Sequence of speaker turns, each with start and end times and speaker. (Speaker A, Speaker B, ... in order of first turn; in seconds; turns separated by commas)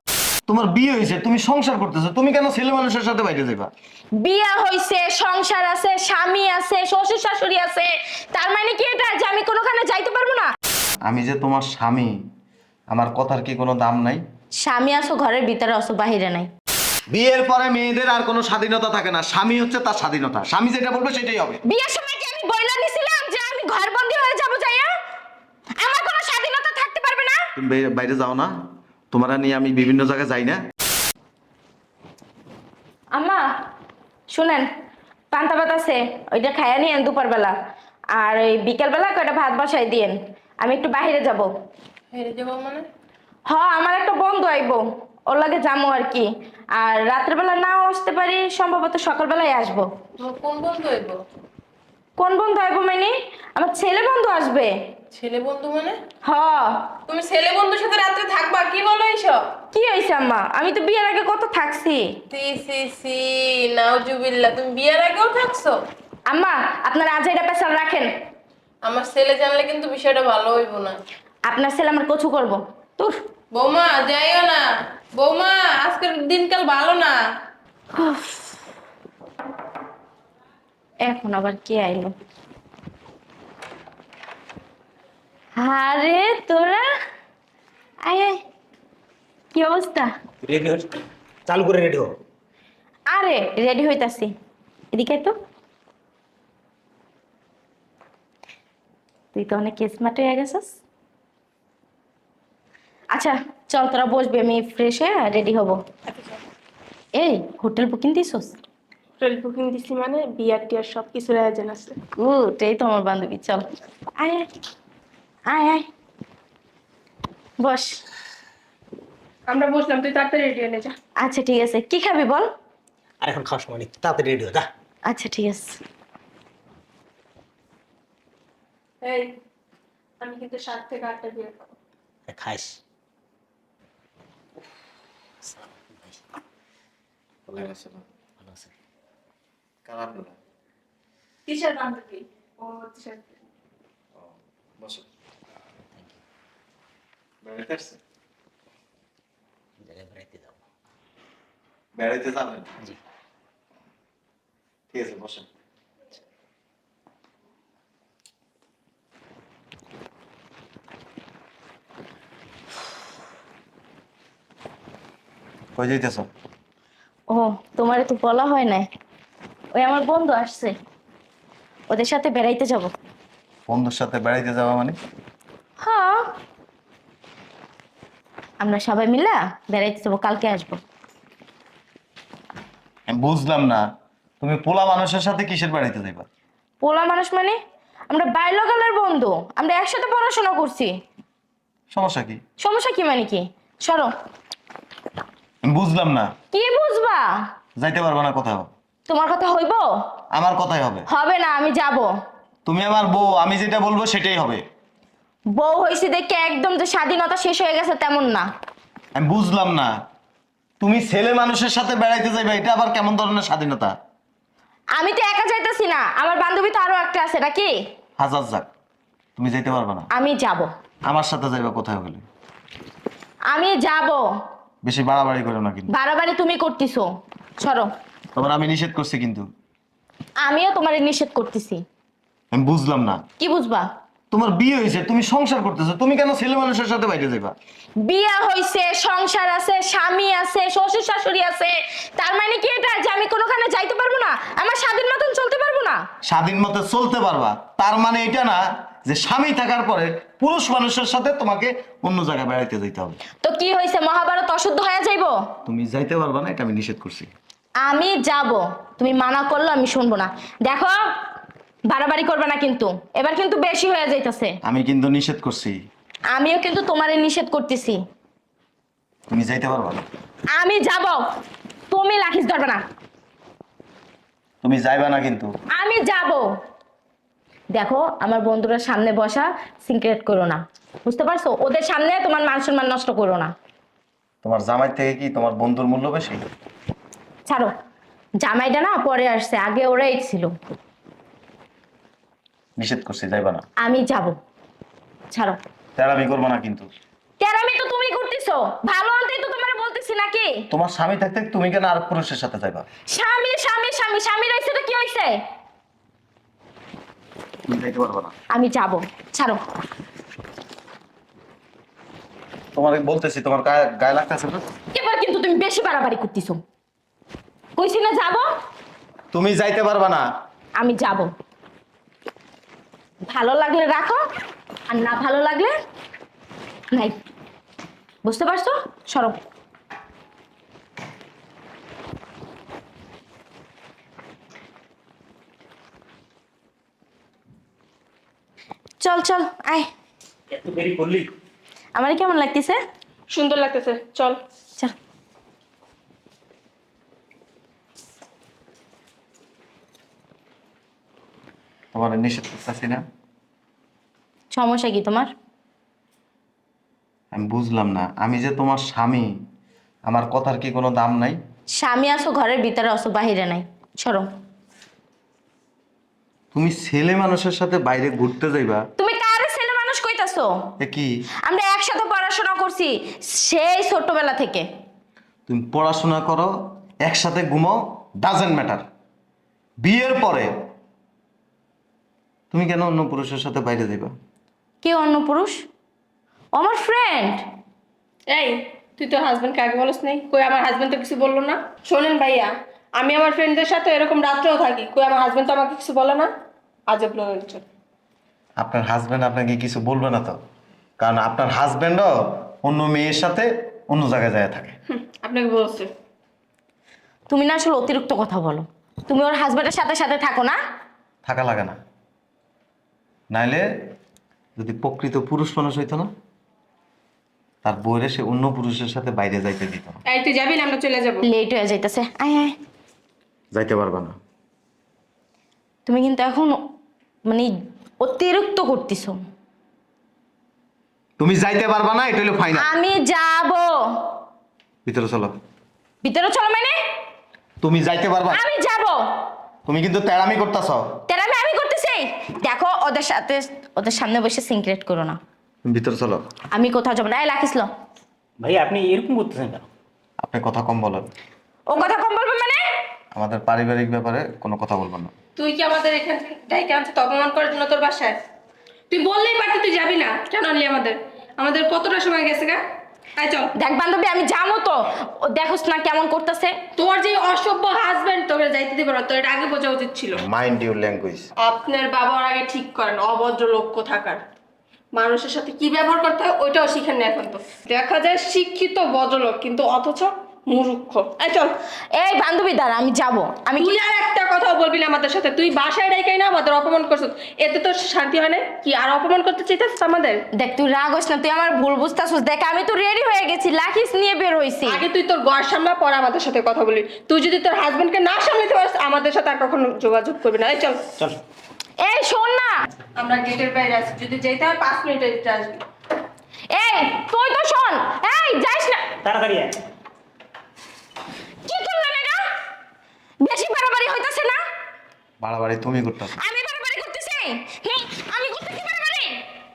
Speaker A: 0.5-3.7, Speaker B: 4.2-10.5, Speaker A: 11.1-12.2, Speaker A: 12.9-14.2, Speaker B: 14.6-16.5, Speaker A: 17.1-21.6, Speaker B: 21.7-24.9, Speaker B: 25.8-27.5, Speaker A: 27.6-28.5, Speaker A: 29.1-30.6, Speaker B: 33.1-33.5, Speaker B: 34.3-34.7, Speaker B: 35.3-37.5, Speaker B: 38.1-41.5, Speaker C: 42.1-42.8, Speaker D: 42.3-42.8, Speaker B: 43.5-49.9, Speaker C: 50.2-51.1, Speaker D: 50.2-51.2, Speaker B: 52.2-54.7, Speaker D: 55.1-56.0, Speaker C: 55.2-55.9, Speaker B: 56.2-56.9, Speaker C: 57.1-59.4, Speaker D: 57.2-58.2, Speaker B: 59.7-62.1, Speaker D: 62.3-65.7, Speaker C: 63.6-65.7, Speaker B: 66.3-68.1, Speaker C: 68.9-71.0, Speaker D: 68.9-70.8, Speaker B: 71.5-73.2, Speaker C: 73.5-74.6, Speaker D: 73.6-74.6, Speaker C: 75.2-77.1, Speaker D: 75.4-77.1, Speaker B: 78.0-78.5, Speaker B: 81.0-82.1, Speaker B: 85.6-86.9, Speaker B: 88.0-88.4, Speaker B: 89.5-90.1, Speaker E: 90.4-90.9, Speaker E: 91.5-92.2, Speaker B: 93.1-94.3, Speaker B: 94.9-95.3, Speaker B: 99.3-100.8, Speaker B: 103.1-105.8, Speaker C: 106.1-106.4, Speaker B: 107.2-108.6, Speaker C: 109.2-112.0, Speaker B: 112.2-113.7, Speaker B: 114.2-114.5, Speaker B: 115.5-115.9, Speaker B: 117.6-118.0, Speaker C: 119.5-121.0, Speaker B: 121.2-122.5, Speaker E: 123.2-124.7, Speaker B: 125.1-125.8, Speaker C: 129.0-129.3, Speaker C: 130.2-131.7, Speaker E: 132.3-132.8, Speaker E: 135.5-136.2, Speaker A: 137.5-138.0, Speaker E: 138.4-138.7, Speaker A: 139.9-140.3, Speaker C: 141.5-143.4, Speaker A: 144.2-145.1, Speaker A: 147.4-148.0, Speaker E: 149.8-150.6, Speaker A: 152.0-152.7, Speaker A: 154.9-155.5, Speaker A: 165.8-166.3, Speaker B: 167.3-168.9, Speaker B: 169.7-170.8, Speaker B: 171.9-172.9, Speaker A: 173.7-175.0, Speaker B: 175.8-176.3, Speaker B: 178.6-180.8, Speaker A: 183.1-183.8, Speaker A: 184.4-186.3, Speaker B: 186.8-187.6, Speaker B: 188.1-190.9, Speaker A: 191.9-192.4, Speaker B: 192.6-194.1, Speaker A: 195.6-196.3, Speaker B: 196.5-197.4, Speaker A: 197.8-198.7, Speaker B: 199.1-199.9, Speaker A: 200.3-201.1, Speaker B: 201.1-202.1, Speaker A: 202.7-204.6, Speaker B: 205.5-208.5, Speaker A: 209.2-209.9, Speaker A: 210.8-213.9, Speaker B: 215.0-217.7, Speaker A: 218.2-218.7, Speaker A: 219.4-220.1, Speaker B: 220.1-220.7, Speaker A: 221.1-222.2, Speaker B: 223.5-224.2, Speaker A: 224.8-225.9, Speaker B: 225.9-227.1, Speaker B: 227.6-227.9, Speaker A: 228.3-229.5, Speaker B: 230.4-231.8, Speaker A: 232.5-233.2, Speaker B: 233.4-233.9, Speaker A: 234.3-237.6, Speaker B: 238.1-246.0, Speaker A: 246.3-253.2, Speaker B: 253.4-255.3, Speaker A: 255.7-257.3, Speaker B: 257.8-260.9, Speaker B: 261.9-264.6, Speaker A: 264.6-265.8, Speaker B: 266.3-268.0, Speaker A: 269.3-270.0, Speaker B: 270.6-271.2, Speaker B: 271.9-272.8, Speaker A: 274.6-275.5, Speaker B: 275.7-276.5, Speaker B: 277.7-283.5, Speaker A: 284.4-286.5, Speaker B: 288.4-290.5, Speaker A: 292.8-293.6, Speaker B: 293.8-294.4, Speaker B: 295.3-295.6, Speaker A: 296.0-296.9, Speaker B: 297.4-300.6, Speaker A: 300.7-302.9, Speaker B: 303.1-305.4, Speaker A: 307.7-308.3, Speaker B: 308.5-309.6, Speaker A: 312.8-314.6, Speaker B: 314.9-316.6, Speaker B: 317.8-318.5, Speaker A: 319.3-320.3, Speaker B: 320.8-321.3, Speaker B: 323.3-324.2, Speaker B: 324.9-325.7, Speaker B: 326.9-327.2, Speaker B: 328.2-329.4, Speaker B: 339.0-339.9, Speaker E: 340.5-341.3, Speaker B: 342.0-342.8, Speaker C: 343.3-344.4, Speaker A: 351.9-353.0, Speaker B: 354.5-355.3, Speaker A: 357.3-359.3, Speaker A: 360.1-361.4, Speaker B: 361.8-364.3, Speaker A: 366.5-368.8, Speaker B: 369.0-370.5, Speaker A: 370.8-371.1, Speaker B: 371.4-374.6, Speaker A: 375.5-376.5, Speaker A: 377.0-378.9, Speaker A: 379.8-380.5, Speaker A: 382.5-384.1, Speaker B: 384.8-385.6, Speaker B: 386.5-387.4, Speaker C: 388.3-396.3, Speaker C: 396.9-397.6, Speaker A: 398.6-400.4, Speaker A: 401.0-404.8, Speaker C: 404.9-405.9, Speaker B: 407.3-410.6, Speaker A: 411.2-411.8, Speaker A: 413.3-413.7, Speaker A: 414.6-416.1, Speaker A: 417.6-420.0, Speaker C: 420.1-421.2, Speaker B: 421.2-422.5, Speaker A: 423.5-424.2, Speaker B: 425.9-426.6, Speaker B: 427.3-429.2, Speaker A: 431.2-432.7, Speaker B: 432.6-434.1, Speaker A: 434.9-435.3, Speaker B: 436.0-436.8, Speaker A: 437.6-438.4, Speaker B: 438.3-439.0, Speaker A: 439.7-440.9, Speaker B: 441.1-445.2, Speaker A: 445.6-446.2, Speaker B: 446.5-447.7, Speaker E: 448.4-449.7, Speaker A: 450.2-451.1, Speaker B: 451.7-452.6, Speaker A: 453.1-455.1, Speaker C: 455.4-458.2, Speaker C: 458.9-462.6, Speaker C: 463.2-463.5, Speaker B: 463.6-466.6, Speaker C: 466.8-470.2, Speaker A: 470.1-471.3, Speaker C: 471.4-474.2, Speaker C: 475.0-481.5, Speaker B: 482.0-483.7, Speaker C: 483.6-490.2, Speaker B: 490.4-494.8, Speaker C: 494.7-500.9, Speaker B: 501.8-502.6, Speaker C: 503.0-505.6, Speaker B: 506.5-508.9, Speaker E: 509.0-509.6, Speaker B: 511.5-512.3, Speaker B: 513.2-514.4, Speaker A: 515.2-516.2, Speaker B: 516.2-519.2